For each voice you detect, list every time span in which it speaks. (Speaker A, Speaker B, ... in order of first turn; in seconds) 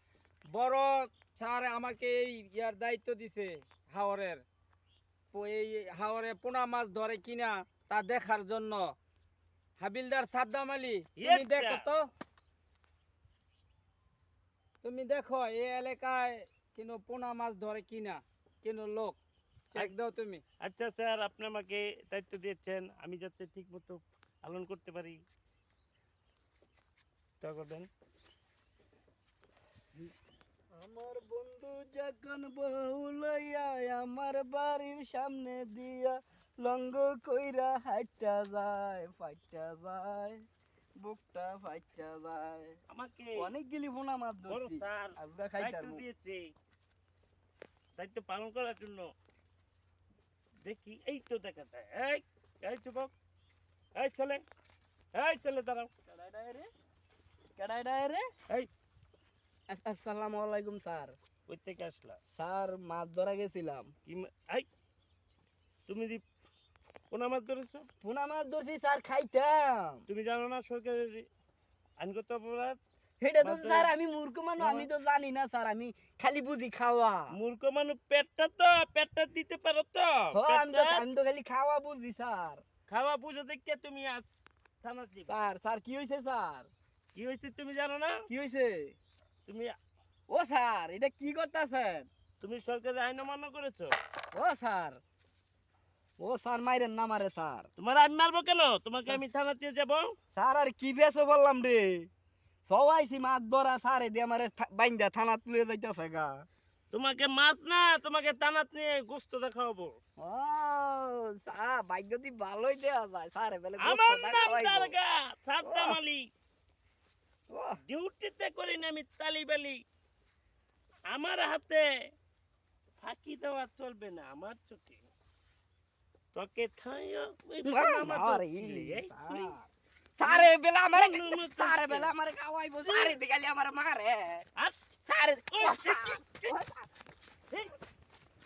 Speaker A: 0.5-4.4, 5.3-8.9, 9.8-12.1, 14.8-19.2, 19.7-20.4
Speaker B: 11.2-11.8, 20.6-25.2, 27.4-27.9, 42.9-43.5, 44.5-46.5, 48.0-49.1, 50.6-53.1, 54.0-54.4, 55.1-55.9, 61.5-62.2, 64.0-64.7, 65.9-66.2, 67.1-67.9, 70.1-71.3, 72.0-72.8, 73.4-73.9, 74.6-74.9, 77.3-81.0, 82.9-85.3, 87.1-88.1, 89.5-89.7, 92.4-94.0, 97.8-100.1, 106.9-110.0, 113.8-116.2, 117.8-119.8, 121.1-121.8, 123.0-125.1, 126.3-129.6, 130.2-132.1, 132.8-133.2, 135.5-136.5
Speaker C: 30.7-40.4, 41.0-42.8, 43.3-46.0, 56.1-56.7, 57.6-58.3, 59.7-61.1, 62.3-63.9, 68.0-70.1, 73.2-77.4, 80.3-82.6, 85.3-86.7, 88.3-89.0, 90.3-92.1, 94.3-95.0, 96.2-97.7, 100.3-102.1, 102.7-106.5, 110.2-114.9, 115.6-116.0, 117.5-117.8, 127.6-129.7, 130.2-134.4, 135.1-136.9